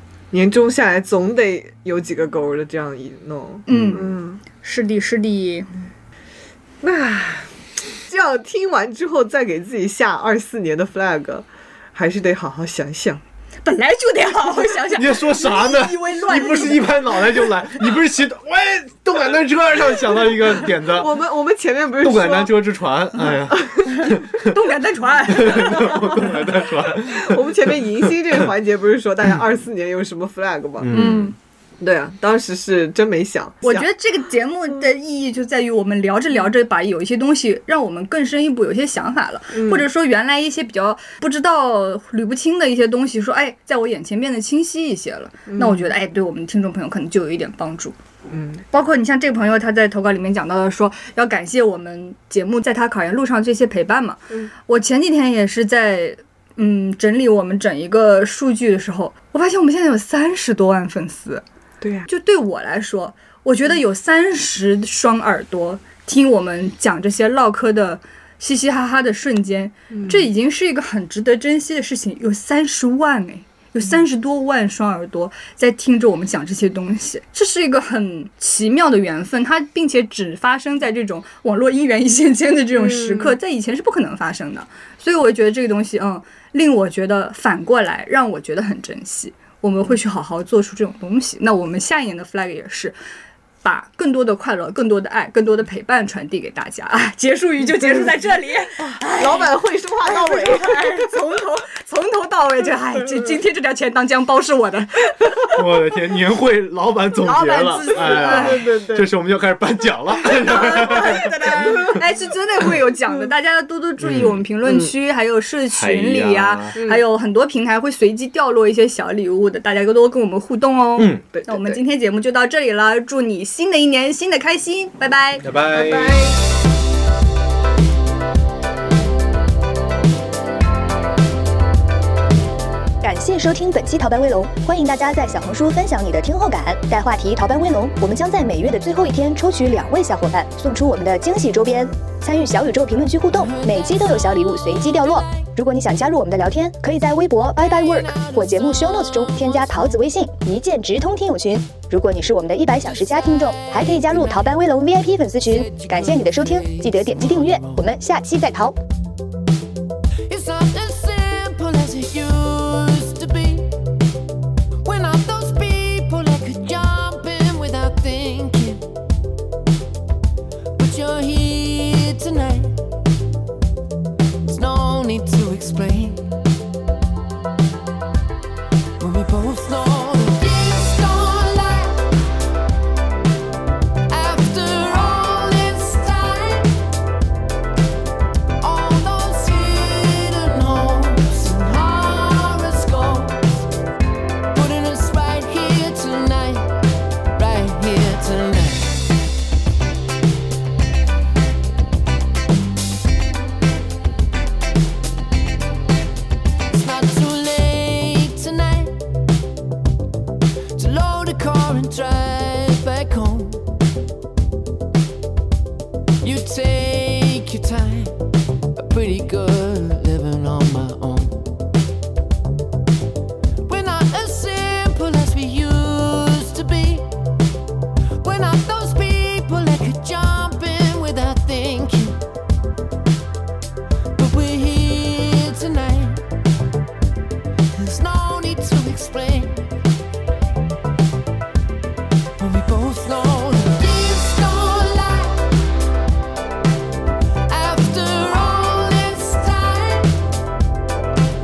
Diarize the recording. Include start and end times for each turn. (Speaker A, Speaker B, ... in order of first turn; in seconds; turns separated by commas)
Speaker A: 0.3-4.4, Speaker B: 3.6-5.7, Speaker C: 3.7-4.0, Speaker A: 6.8-13.2, Speaker B: 13.6-17.5, Speaker C: 14.9-21.1, Speaker A: 20.7-22.6, Speaker C: 22.0-24.5, Speaker A: 23.2-24.2, Speaker B: 23.9-26.2, Speaker C: 25.3-27.8, Speaker A: 25.6-30.9, Speaker C: 30.8-31.3, Speaker B: 30.9-31.3, Speaker A: 31.8-33.9, Speaker B: 33.6-48.0, Speaker A: 39.5-39.9, Speaker A: 45.5-45.9, Speaker A: 48.3-48.6, Speaker B: 48.7-61.4, Speaker A: 61.8-62.1, Speaker B: 62.0-93.0, Speaker A: 69.9-70.3, Speaker A: 82.7-83.4, Speaker B: 93.6-105.5, Speaker A: 98.8-101.2, Speaker C: 105.5-111.9, Speaker B: 107.2-108.6, Speaker A: 107.9-109.1, Speaker B: 110.5-125.5, Speaker A: 110.8-112.0, Speaker C: 114.0-114.4, Speaker A: 114.6-114.9, Speaker C: 115.7-116.8, Speaker A: 116.8-117.0, Speaker C: 121.0-121.3, Speaker A: 121.3-121.8, Speaker C: 125.4-126.2, Speaker A: 125.6-126.4, Speaker D: 133.0-158.8, Speaker E: 143.3-145.2, Speaker E: 147.6-150.1, Speaker E: 152.8-154.7, Speaker E: 155.4-157.9, Speaker E: 160.3-163.9, Speaker E: 164.8-168.9, Speaker E: 170.8-172.8, Speaker E: 174.4-176.3, Speaker E: 179.0-182.2, Speaker E: 184.1-186.9, Speaker E: 188.6-193.7, Speaker E: 194.5-199.0, Speaker E: 206.7-209.1, Speaker E: 210.7-213.8, Speaker E: 216.2-221.6, Speaker E: 223.6-227.3, Speaker E: 228.2-232.2, Speaker E: 234.2-236.2, Speaker E: 237.7-239.8, Speaker E: 242.4-245.6, Speaker E: 247.4-250.2